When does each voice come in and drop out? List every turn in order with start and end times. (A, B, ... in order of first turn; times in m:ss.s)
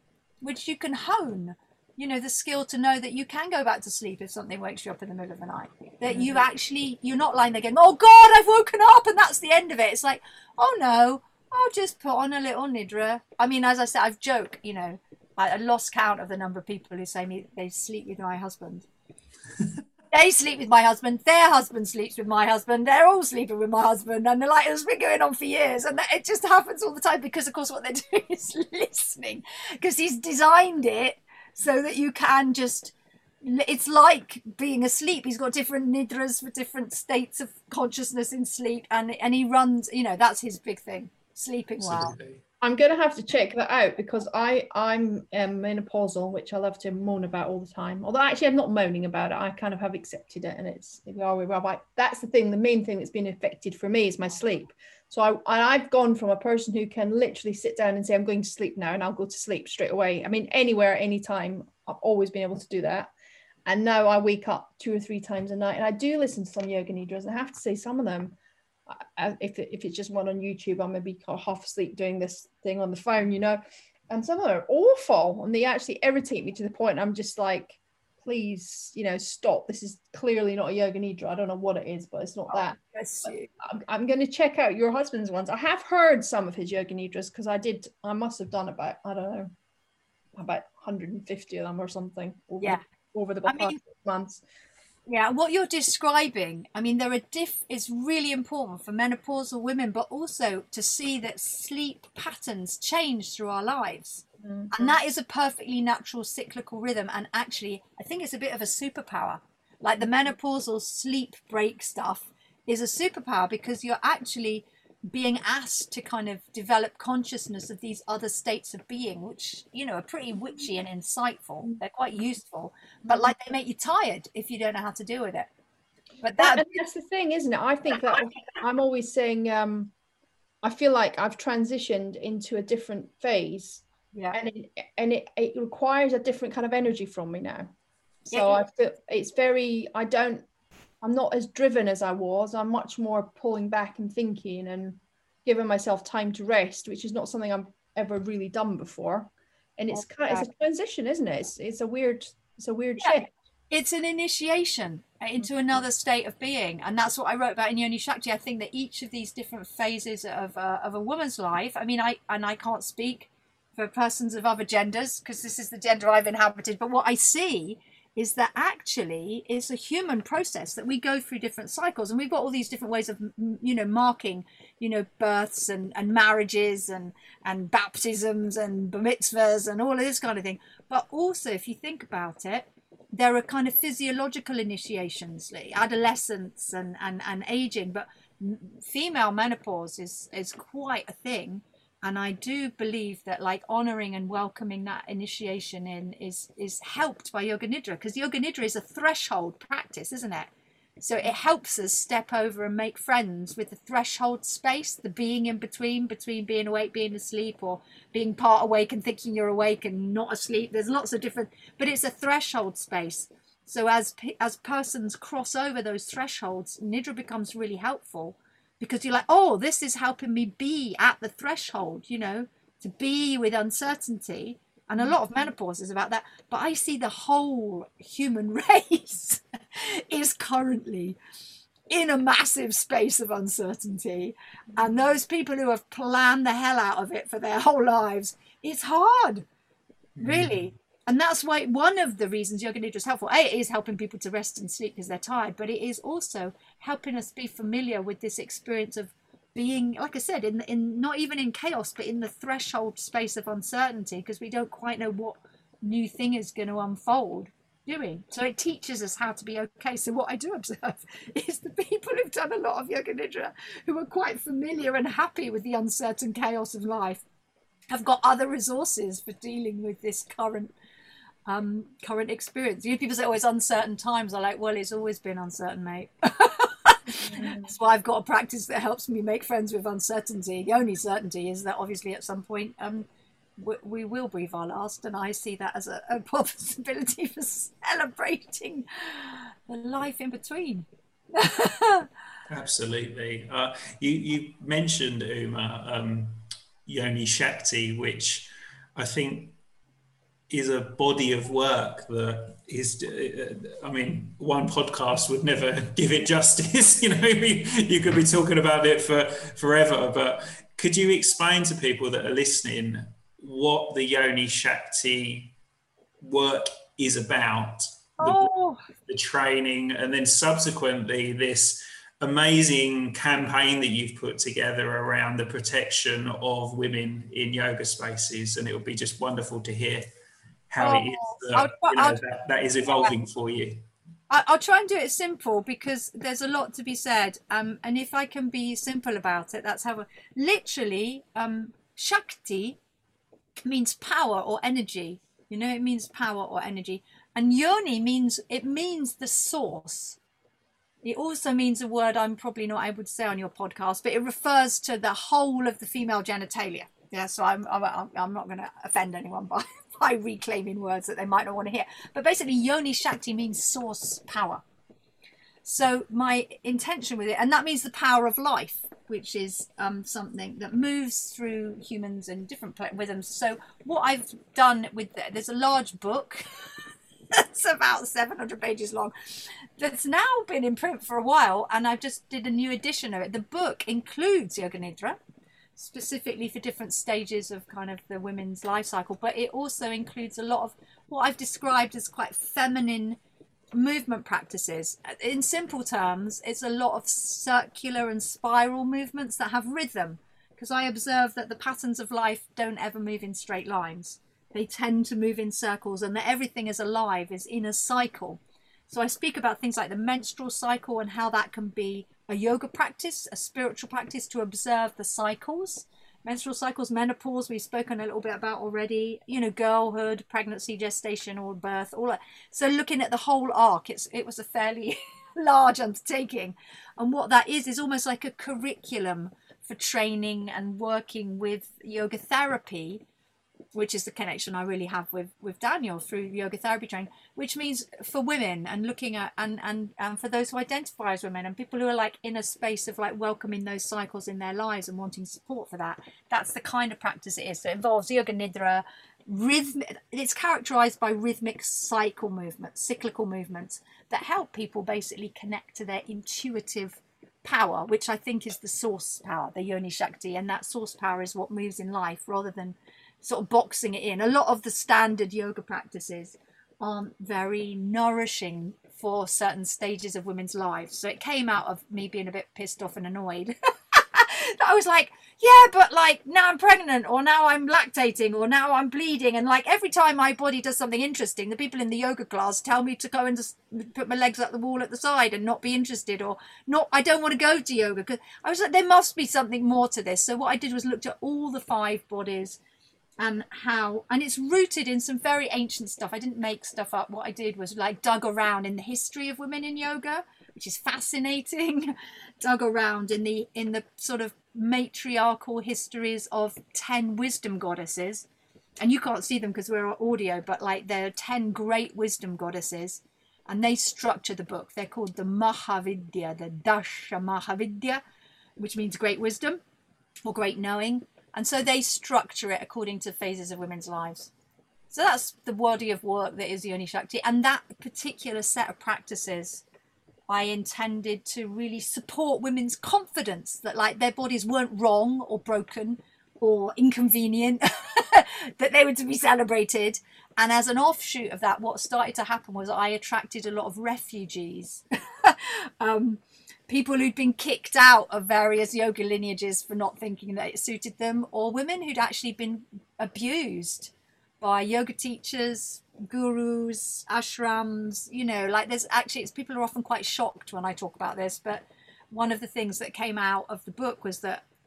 0:00.4-0:18.9 A
0:06.1-0:06.4 B
0:20.1-0:42.2 A
0:41.8-0:42.4 C
0:42.6-1:03.1 B
1:03.7-1:08.4 B
1:08.9-1:29.5 B
1:22.5-1:23.5 A
1:30.4-1:34.4 B
1:33.5-1:33.8 A
1:35.1-2:05.5 A
1:44.4-1:45.0 B
2:03.0-2:03.4 B
2:06.2-2:06.7 A
2:06.4-2:09.9 B
2:10.6-2:17.7 B
2:18.3-2:18.6 A
2:18.3-2:20.5 B
2:21.0-2:33.3 B
2:29.9-2:30.5 A
2:33.7-3:51.2 A
2:35.4-2:35.8 B
3:51.9-3:59.5 A
4:00.2-4:00.6 C
4:00.2-4:27.2 A
4:27.9-4:30.7 A
4:31.5-4:43.1 A
4:37.2-4:37.7 B
4:43.6-4:52.1 A
4:52.5-4:59.6 C
5:00.5-5:15.5 C
5:16.2-5:18.4 C
5:18.2-5:18.8 A
5:19.1-5:30.1 C
5:30.7-5:33.9 C
5:30.8-5:32.2 A
5:34.3-5:42.8 A
5:43.6-5:50.2 A
5:51.0-6:04.6 A
6:05.6-6:16.4 A
6:17.3-6:25.2 A
6:25.8-6:33.2 A
6:33.7-7:13.0 A
7:13.7-8:12.6 A
8:13.2-8:28.3 A
8:28.8-8:38.0 A
8:38.6-8:39.6 A
8:40.3-8:44.3 A
8:44.9-8:49.6 A
8:50.3-9:24.4 A